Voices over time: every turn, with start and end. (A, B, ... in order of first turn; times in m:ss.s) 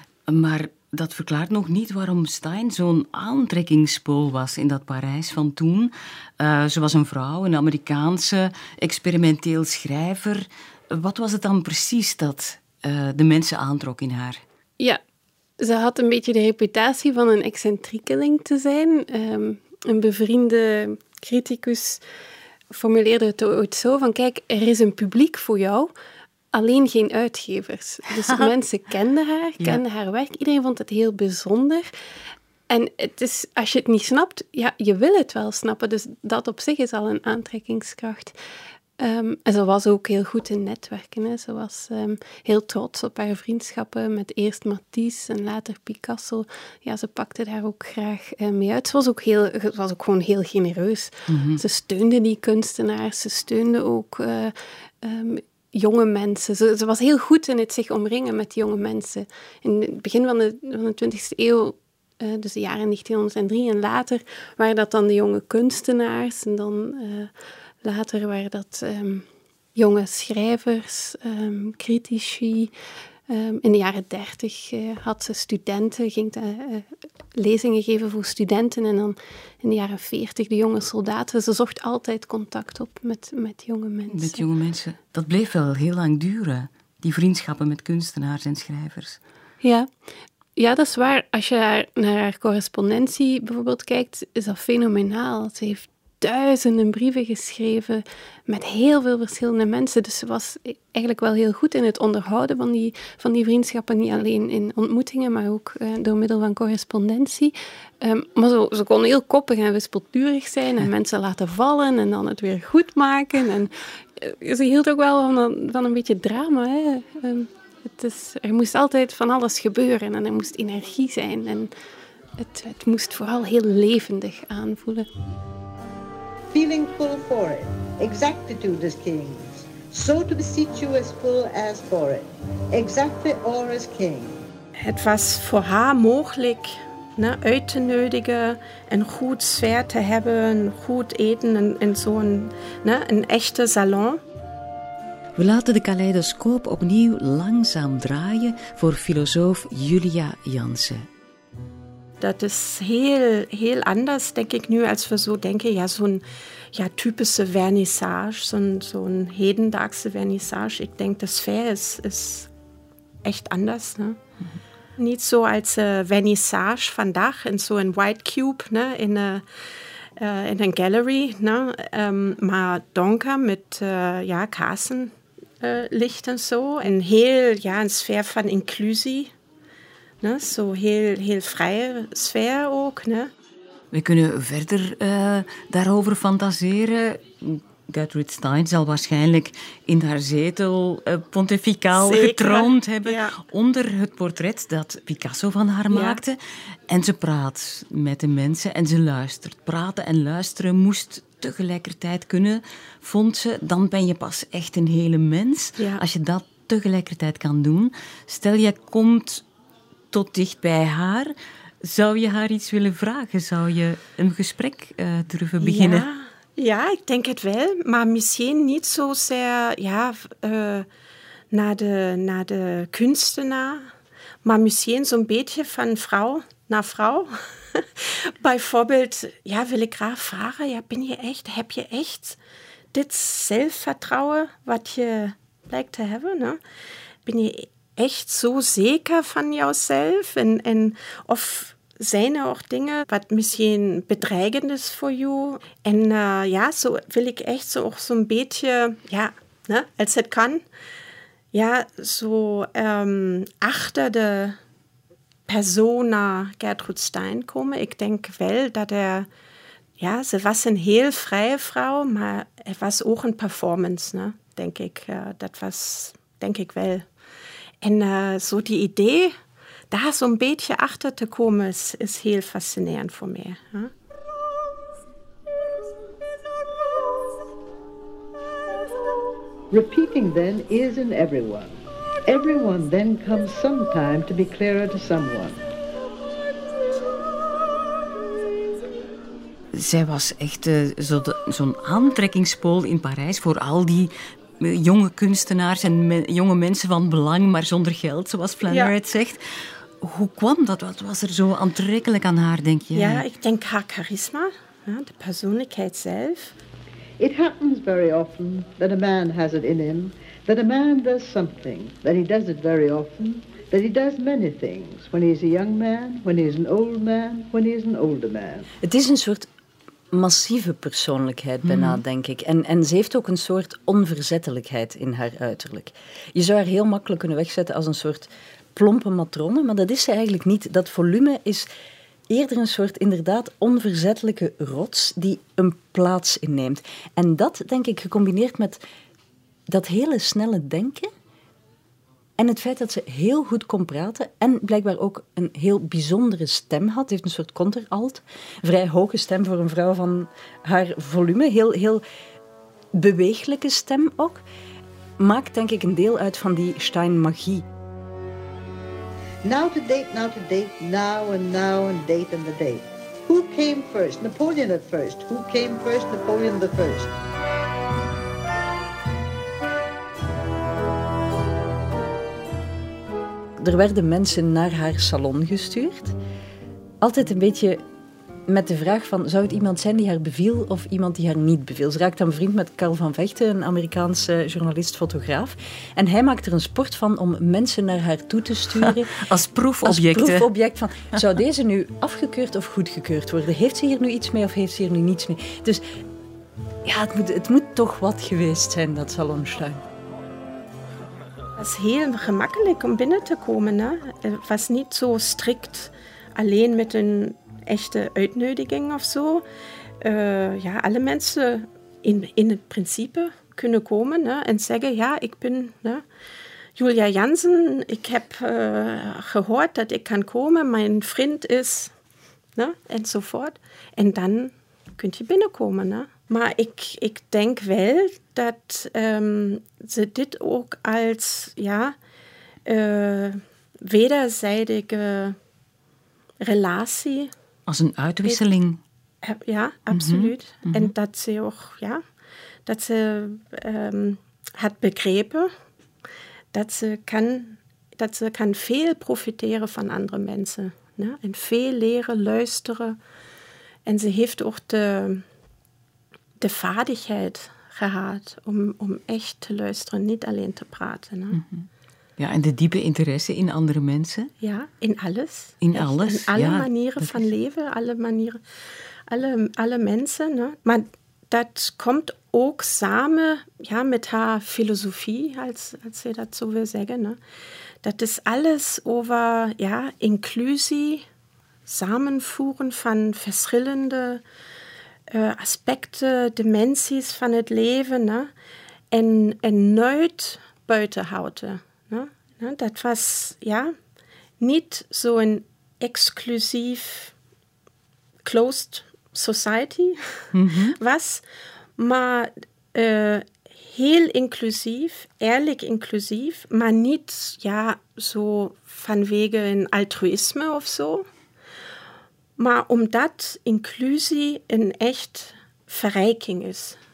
0:00.3-0:14.4 A
0:15.6-0:22.0 B
0:22.7-0:25.9 B
0:26.5-0:31.9 B
0:32.7-0:38.4 B
0:39.0-1:12.7 B
0:51.3-0:51.6 A
1:13.3-1:24.4 B
1:24.1-1:29.2 A
1:29.6-1:29.9 B
1:30.6-2:01.7 B
2:02.4-2:05.1 B
2:06.5-2:14.4 C
2:14.8-2:24.2 D
2:25.4-2:31.1 A
2:32.2-2:42.5 D
2:43.2-2:44.2 D
2:45.0-2:49.5 D
2:50.2-2:59.3 D
3:00.2-3:03.3 D
3:03.9-3:29.4 A
3:12.0-3:13.4 D
3:15.9-3:16.2 D
3:25.8-3:26.0 D
3:30.1-3:36.1 A
3:35.6-3:40.9 D
3:41.5-3:43.9 D
3:44.4-3:52.4 D
3:52.9-3:56.6 D
3:57.2-4:10.6 D
4:11.5-4:14.6 D
4:15.5-4:19.3 D
4:20.0-4:27.1 D
4:27.8-4:29.4 D
4:29.9-4:33.9 D
4:39.7-4:45.6 C
4:49.7-4:59.4 A
4:58.7-4:59.0 D
5:00.0-5:03.2 A
5:02.9-5:06.5 D
5:07.2-5:18.7 C
5:18.8-5:19.5 E
5:20.1-5:31.7 E
5:21.6-5:22.0 A
5:32.3-5:38.8 E
5:39.7-5:41.1 E
5:42.4-5:52.0 E
5:52.9-5:54.4 E
5:55.2-5:57.7 E
5:59.4-6:07.1 C
6:13.6-6:16.2 E
6:17.0-6:17.8 E
6:18.5-6:29.2 E
6:28.8-6:30.5 A
6:29.8-6:35.8 E
6:36.8-6:39.8 E
6:41.6-6:49.4 D
6:50.0-6:56.0 D
6:56.8-7:01.9 D
7:02.6-7:12.0 D
7:12.6-7:15.4 D
7:16.4-7:17.3 D
7:17.7-7:18.8 A
7:19.2-7:22.0 D
7:19.9-7:20.9 A
7:22.7-7:25.5 D
7:26.5-7:33.0 D
7:33.9-7:35.2 D
7:36.4-7:41.4 D
7:41.3-7:41.7 A
7:42.2-7:44.3 A
7:44.4-7:48.4 D
7:45.6-7:47.3 A
7:49.1-7:57.2 D
7:57.8-8:01.0 D
8:01.7-8:04.2 D
8:05.1-8:08.3 D
8:08.9-8:13.8 D
8:14.4-8:17.1 D
8:18.2-8:21.2 D
8:20.3-8:20.8 A
8:21.8-8:31.0 D
8:32.4-8:36.8 D